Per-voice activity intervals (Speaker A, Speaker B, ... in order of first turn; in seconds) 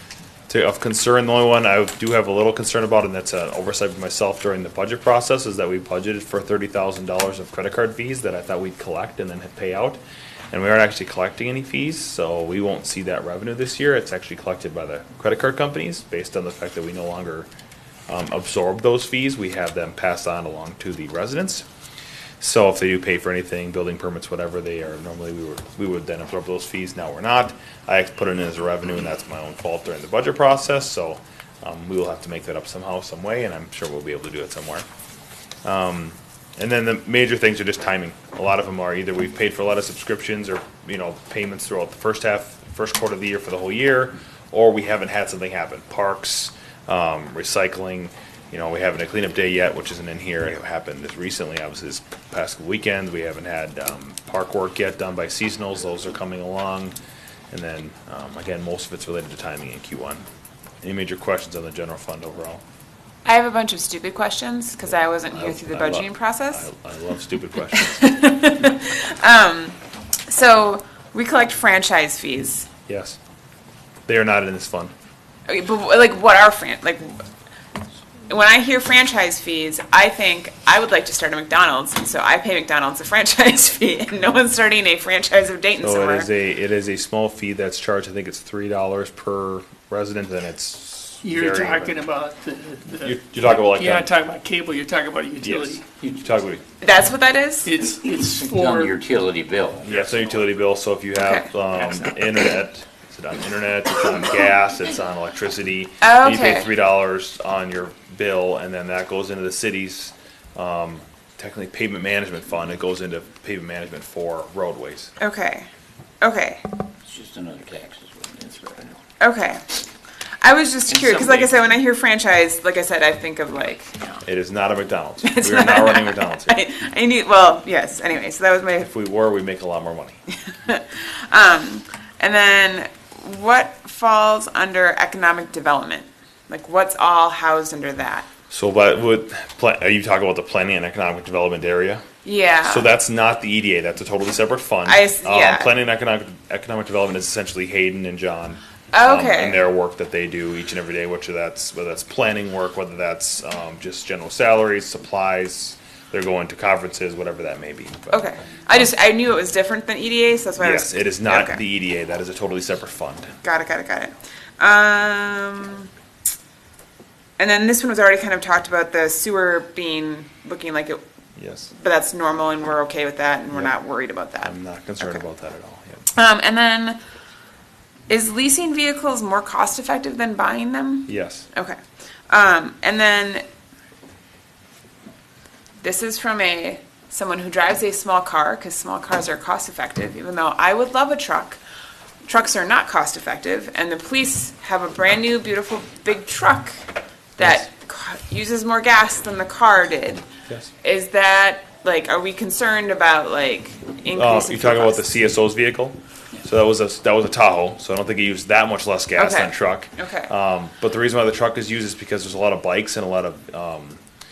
Speaker A: 0.5-10.0, 10.5-17.5, 18.1-21.6, 22.4-34.9, 35.6-56.9, 57.5-60.2, 60.8-62.6, 65.3-68.1, 72.9-73.2, 74.1-74.9, 85.8-92.0, 93.0-94.1, 95.4-96.6, 99.8-115.1, 124.2-126.6, 128.8-130.2, 138.5-142.0, 142.6-158.8, 160.6-163.3, 171.4-171.7, 174.4-176.1, 181.1-181.5, 197.4-197.7, 204.1-214.0
Speaker B: 63.2-66.7, 67.8-69.8, 70.3-72.7, 75.5-77.2, 78.3-86.3, 96.8-97.7, 101.1-101.5, 106.0-106.7, 115.2-115.7, 116.2-116.6, 119.2-119.6, 120.4-124.2, 125.2-128.9, 130.5-138.3, 142.2-142.9, 144.8-145.7, 148.9-149.6, 158.1-161.6, 163.4-165.9, 167.4-171.0, 171.7-175.2, 176.1-177.0, 178.1-181.8, 182.3-183.4, 185.8-191.6, 192.2-196.8, 197.4-200.2, 200.8-205.2, 209.2-210.3
Speaker C: 91.2-95.9, 97.6-98.9
Speaker D: 98.1-99.8, 117.0-119.0, 120.9-121.5